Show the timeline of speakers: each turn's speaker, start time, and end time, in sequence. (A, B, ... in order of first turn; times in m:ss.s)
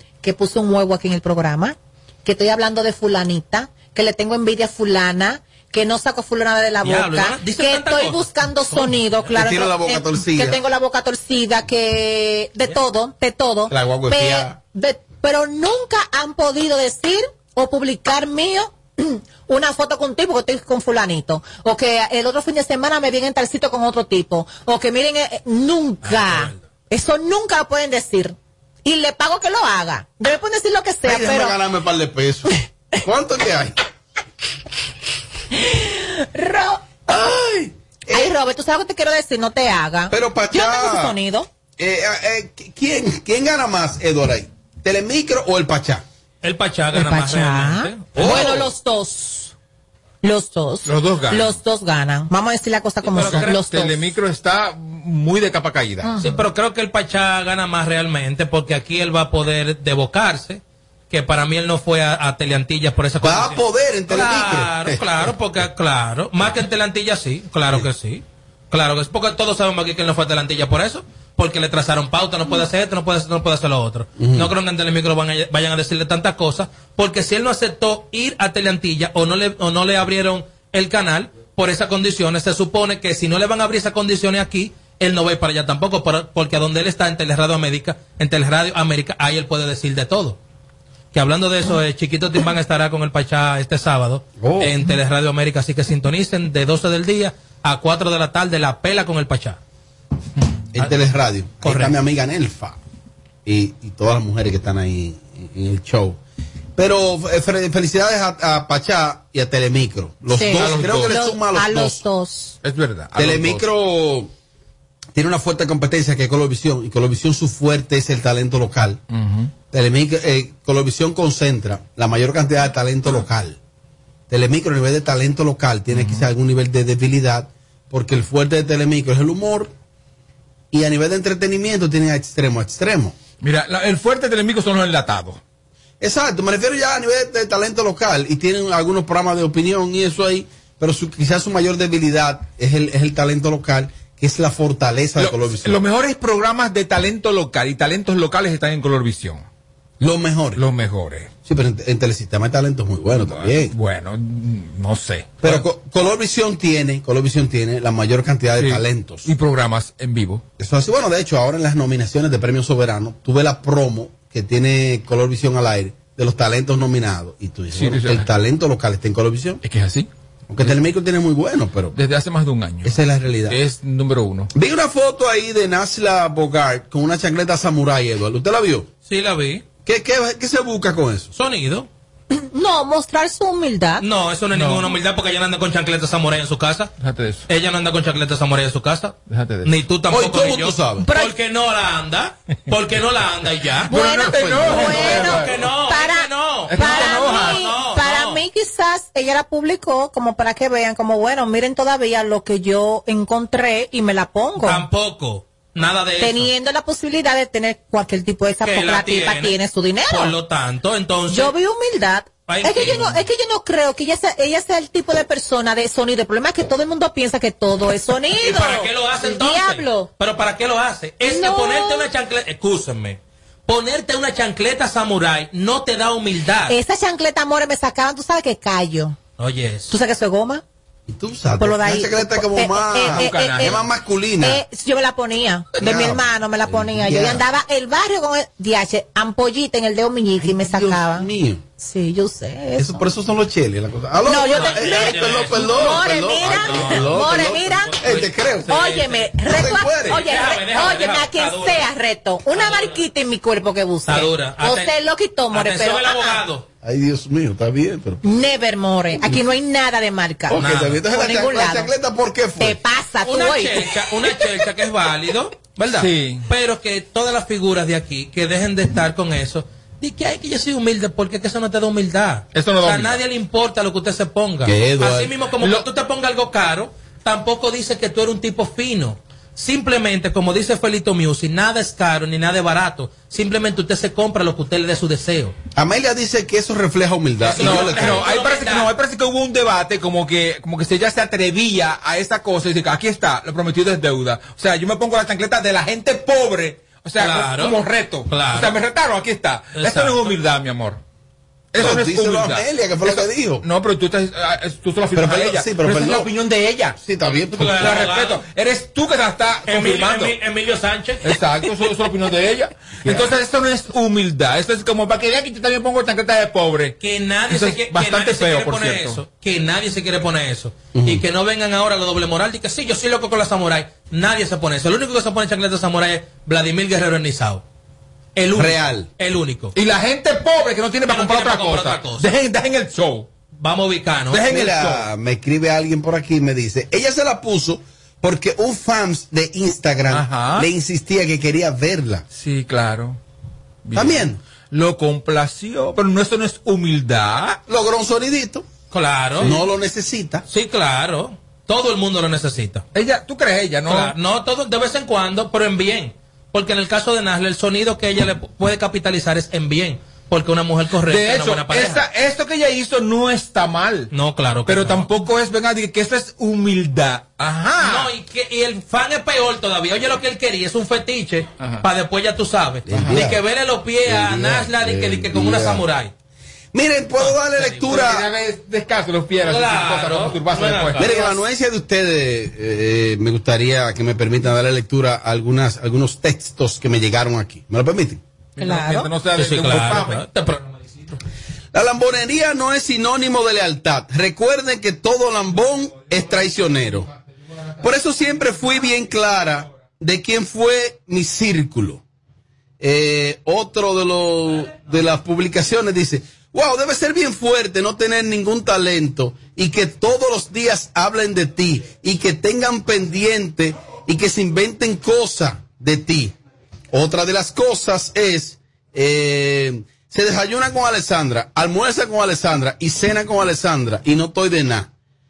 0:00.2-0:31.5 A
0:06.8-0:09.0 B
0:09.3-0:10.6 C
0:13.7-0:14.6 C
0:26.0-0:26.6 B
0:31.0-0:33.8 C
0:35.5-0:36.8 A
0:37.1-0:38.3 C
0:38.1-0:41.5 A
0:40.1-0:41.2 C
0:41.8-0:46.0 C
0:46.4-0:48.1 B
0:46.9-0:49.5 A
0:48.2-0:48.6 C
0:48.2-0:48.5 D
0:50.2-0:54.0 A
0:50.8-0:51.6 D
0:53.1-0:56.1 D
0:53.1-0:53.6 B
0:56.0-0:56.4 A
0:56.2-1:30.4 B
1:03.2-1:05.3 C
1:14.2-1:14.5 C
1:31.1-1:39.6 B
1:34.4-1:34.8 C
1:40.7-1:42.8 C
1:41.6-1:42.0 B
1:43.4-1:46.2 C
1:46.8-1:52.0 C
1:50.3-1:52.6 A
1:50.5-1:51.2 D
1:52.6-1:53.6 D
1:53.2-1:54.3 C
1:55.1-1:59.0 C
1:59.1-1:59.5 D
1:59.7-2:03.6 C
2:04.3-2:09.7 C
2:05.9-2:06.2 D
2:10.7-2:13.1 C
2:13.4-2:15.4 D
2:16.0-2:25.8 C
2:25.2-2:29.4 D
2:30.0-2:30.6 C
2:30.6-2:31.3 D
2:31.4-2:33.7 C
2:33.2-2:35.6 D
2:35.4-2:39.3 C
2:38.6-2:40.4 D
2:40.6-2:49.6 C
2:47.7-2:48.3 D
2:49.6-2:50.1 D
2:50.5-2:52.0 C
2:51.9-2:54.5 D
2:52.8-2:53.6 C
2:54.5-2:58.9 C
2:59.1-2:59.6 B
2:59.8-3:01.3 C
3:01.3-3:01.9 B
3:02.3-3:04.0 A
3:04.0-3:06.9 B
3:04.5-3:04.9 D
3:07.0-3:07.4 D
3:07.5-3:13.9 B
3:09.3-3:09.7 D
3:10.1-3:11.1 C
3:11.0-3:11.3 A
3:13.9-3:15.5 D
3:13.9-3:24.8 A
3:14.2-3:15.1 C
3:14.6-3:18.4 B
3:16.7-3:17.6 D
3:24.6-3:26.5 B
3:26.2-3:30.3 A
3:28.6-3:29.6 B
3:30.1-3:31.5 B
3:31.3-3:40.1 A
3:32.5-3:33.2 B
3:38.4-3:46.7 B
3:41.2-3:42.1 A
3:46.7-3:49.2 A
3:49.4-3:49.9 B
3:49.9-3:50.6 A
3:51.1-3:54.6 C
3:51.6-3:53.8 A
3:53.0-3:53.8 D
3:54.4-4:01.3 A
3:55.8-3:57.4 C
4:00.4-4:01.6 C
4:01.8-4:03.0 A
4:02.8-4:08.8 C
4:04.2-4:08.0 A
4:04.4-4:09.4 B
4:08.7-4:16.4 A
4:09.4-4:10.3 C
4:10.0-4:11.9 B
4:12.5-4:13.0 B
4:14.0-4:14.9 B
4:15.5-4:16.6 B
4:16.8-4:18.2 C
4:18.2-4:21.9 A
4:20.5-4:22.8 C
4:20.6-4:21.0 B
4:22.6-4:23.9 A
4:23.2-4:45.5 B
4:25.9-4:26.4 D
4:32.5-4:33.2 D
4:34.6-4:35.3 C
4:45.7-4:48.2 C
4:47.4-4:48.9 B
4:47.6-5:01.0 D
4:57.2-4:58.8 B
4:59.8-5:00.4 B
5:01.7-5:07.0 D
5:01.8-5:03.6 C
5:05.1-5:06.3 C
5:07.0-5:08.0 C
5:07.5-5:10.3 D
5:07.6-5:08.4 B
5:09.6-5:11.4 B
5:11.2-5:17.0 D
5:17.0-5:27.6 B
5:17.5-5:19.2 D
5:20.9-5:21.2 C
5:28.4-5:29.7 B
5:28.5-5:29.1 C
5:29.7-5:33.3 D
5:31.1-5:32.3 B
5:33.6-5:34.4 B
5:34.3-5:35.1 D
5:34.5-5:42.2 C
5:40.1-5:40.7 D
5:42.3-5:43.2 D
5:43.8-5:47.6 D
5:43.9-5:44.4 C
5:47.7-5:48.6 C
5:48.9-5:49.5 B
5:49.4-5:50.4 C
5:50.5-5:52.8 B
5:52.9-5:54.1 D
5:53.8-6:02.0 B
6:01.1-6:04.1 D
6:04.1-6:05.1 B
6:04.6-6:08.1 D
6:07.8-6:16.1 B
6:12.8-6:13.4 C
6:12.9-6:13.2 D
6:14.0-6:15.8 C
6:16.7-6:18.3 C
6:17.2-6:17.8 B
6:17.8-6:21.2 D
6:19.4-6:21.3 B
6:21.0-6:28.2 C
6:28.6-6:30.2 D
6:28.6-6:29.1 A
6:29.4-6:31.2 B
6:31.7-6:37.1 C
6:37.8-6:42.0 C
6:42.8-6:56.3 C
6:56.9-7:04.9 C